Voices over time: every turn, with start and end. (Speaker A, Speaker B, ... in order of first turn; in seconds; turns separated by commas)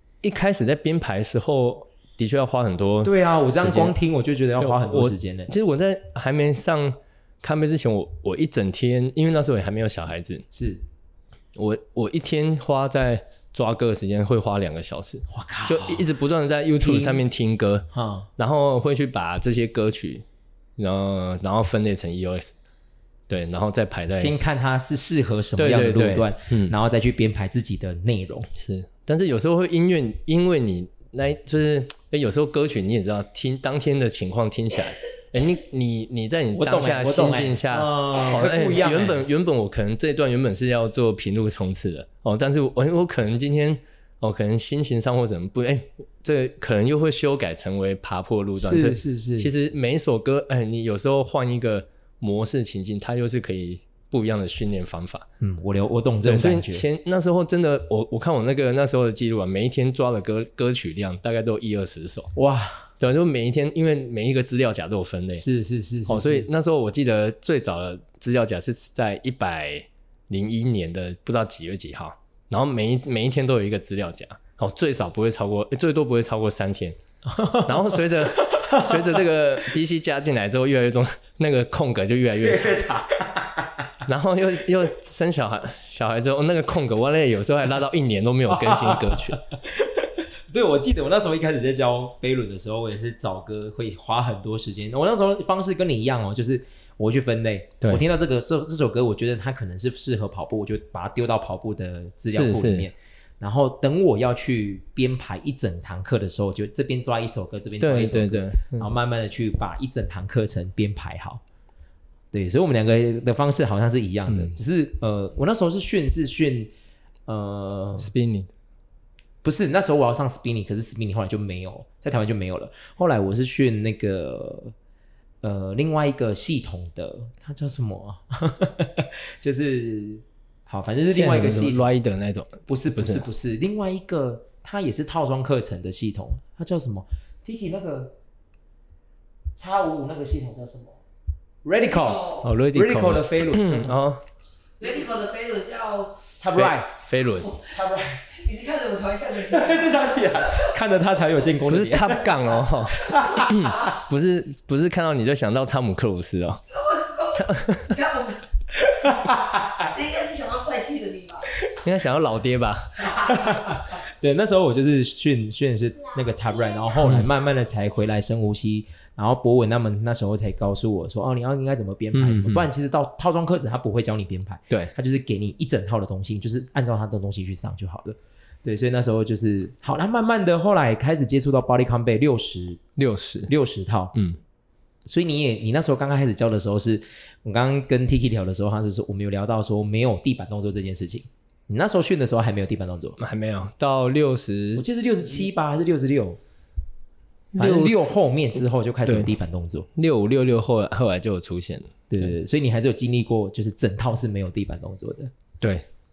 Speaker A: 0.2-4.0, Speaker B: 3.0-5.5, Speaker A: 4.6-10.4, Speaker B: 10.5-10.8, Speaker A: 11.5-20.2, Speaker B: 15.3-16.1, Speaker B: 16.8-17.2, Speaker B: 17.9-18.3, Speaker A: 20.8-22.5, Speaker A: 23.3-24.4, Speaker B: 24.1-28.5, Speaker A: 25.6-26.7, Speaker A: 28.5-55.3, Speaker B: 36.5-39.2, Speaker B: 48.6-49.5, Speaker B: 55.4-56.8, Speaker A: 56.2-62.3, Speaker B: 62.3-62.9, Speaker A: 63.0-65.4, Speaker B: 65.3-66.5, Speaker A: 66.1-77.0, Speaker B: 77.3-79.0, Speaker A: 77.6-82.9, Speaker B: 82.4-83.9, Speaker A: 84.0-89.4, Speaker B: 88.5-111.4, Speaker A: 102.3-102.9, Speaker A: 107.8-108.9, Speaker B: 112.3-116.7, Speaker B: 117.3-118.1, Speaker A: 118.0-118.5, Speaker B: 119.4-124.7, Speaker B: 125.4-131.8, Speaker A: 131.1-133.3, Speaker B: 132.7-138.1, Speaker B: 139.6-141.0, Speaker B: 141.6-144.0, Speaker C: 141.7-142.5, Speaker A: 142.4-144.2, Speaker C: 144.8-146.2, Speaker B: 146.4-146.9, Speaker A: 146.5-147.5, Speaker C: 147.3-147.7, Speaker B: 147.6-148.3, Speaker C: 148.3-150.7, Speaker B: 149.5-152.3, Speaker A: 151.6-156.6, Speaker B: 153.0-153.6, Speaker C: 156.8-158.4, Speaker A: 157.3-158.0, Speaker B: 158.8-159.9, Speaker C: 159.8-161.5, Speaker A: 161.8-163.3, Speaker B: 163.2-182.8, Speaker A: 167.0-167.3, Speaker A: 172.1-172.7, Speaker A: 183.0-183.5, Speaker B: 183.5-184.1, Speaker B: 185.1-193.2, Speaker A: 193.2-194.8, Speaker B: 194.8-196.4, Speaker A: 197.5-198.2, Speaker B: 197.6-199.9, Speaker A: 199.0-199.3, Speaker A: 199.9-202.3, Speaker B: 202.1-205.3, Speaker A: 205.6-205.9